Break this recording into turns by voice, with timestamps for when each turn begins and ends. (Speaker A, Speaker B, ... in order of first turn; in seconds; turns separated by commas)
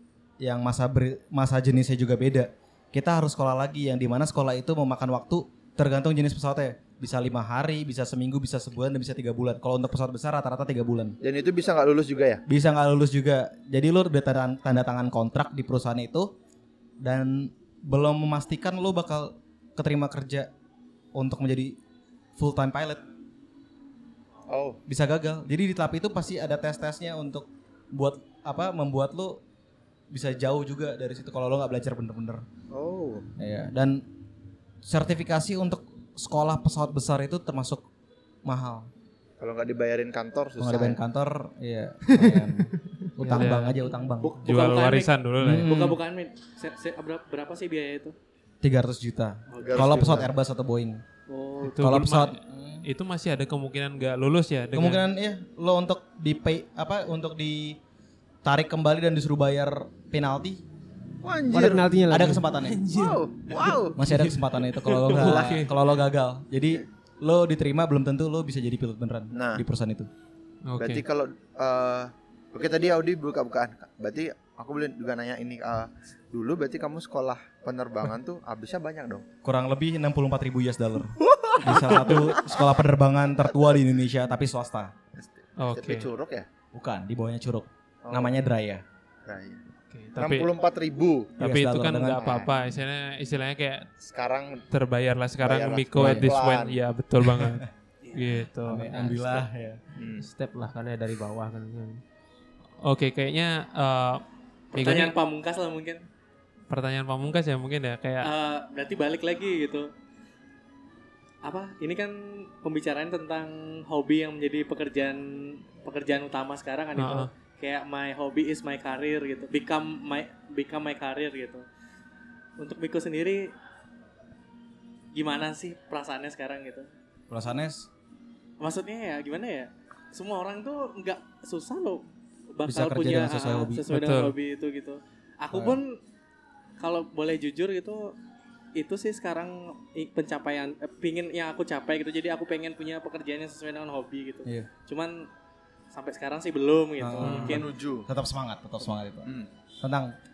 Speaker A: 0.4-11.2, Speaker B: 11.2-12.4, Speaker A: 12.5-16.3, Speaker A: 17.0-20.5, Speaker A: 21.1-21.8, Speaker A: 22.4-23.0, Speaker B: 24.5-24.8, Speaker A: 24.9-29.4, Speaker A: 30.1-32.4, Speaker B: 32.7-33.3, Speaker A: 33.4-34.0, Speaker A: 34.8-37.8, Speaker A: 38.5-38.9, Speaker B: 39.4-41.0, Speaker A: 40.6-44.4, Speaker C: 42.1-43.5, Speaker D: 43.2-43.8, Speaker E: 44.1-48.1, Speaker D: 44.4-45.7, Speaker A: 45.4-46.0, Speaker A: 48.6-51.0, Speaker E: 49.5-50.0, Speaker B: 49.5-50.3, Speaker E: 51.3-51.9, Speaker D: 51.7-55.0, Speaker A: 51.8-52.9, Speaker A: 54.7-57.8, Speaker A: 58.4-60.6, Speaker B: 61.2-61.9, Speaker C: 61.5-62.5, Speaker A: 62.1-62.8, Speaker D: 62.6-65.7, Speaker B: 62.9-64.0, Speaker A: 64.0-70.1, Speaker B: 69.3-69.6, Speaker D: 70.7-71.0, Speaker B: 70.8-79.3, Speaker A: 79.4-84.9, Speaker B: 81.2-82.7, Speaker B: 85.1-86.5, Speaker D: 85.6-86.1, Speaker A: 86.7-88.8, Speaker B: 88.0-88.3, Speaker B: 89.3-89.6, Speaker D: 89.9-90.5, Speaker B: 90.2-91.4, Speaker A: 91.4-92.4, Speaker D: 91.4-93.9, Speaker B: 92.2-92.5, Speaker B: 94.0-94.7, Speaker D: 94.7-99.3, Speaker B: 95.4-96.8, Speaker C: 96.0-96.3, Speaker A: 97.2-97.7, Speaker A: 98.7-99.8, Speaker B: 100.0-100.3, Speaker C: 100.2-102.0, Speaker D: 102.8-104.2, Speaker E: 104.7-106.0, Speaker D: 104.7-105.1, Speaker D: 106.7-108.3, Speaker E: 108.2-109.9, Speaker E: 111.4-121.6, Speaker D: 117.0-117.3, Speaker E: 122.6-123.5, Speaker E: 125.1-126.9, Speaker A: 127.3-127.9, Speaker E: 128.6-136.0, Speaker A: 132.7-133.8, Speaker D: 133.9-134.3, Speaker A: 135.5-135.8, Speaker E: 136.8-138.2, Speaker E: 138.8-145.3, Speaker E: 145.9-147.7, Speaker A: 147.0-150.1, Speaker B: 147.2-148.1, Speaker D: 147.2-147.6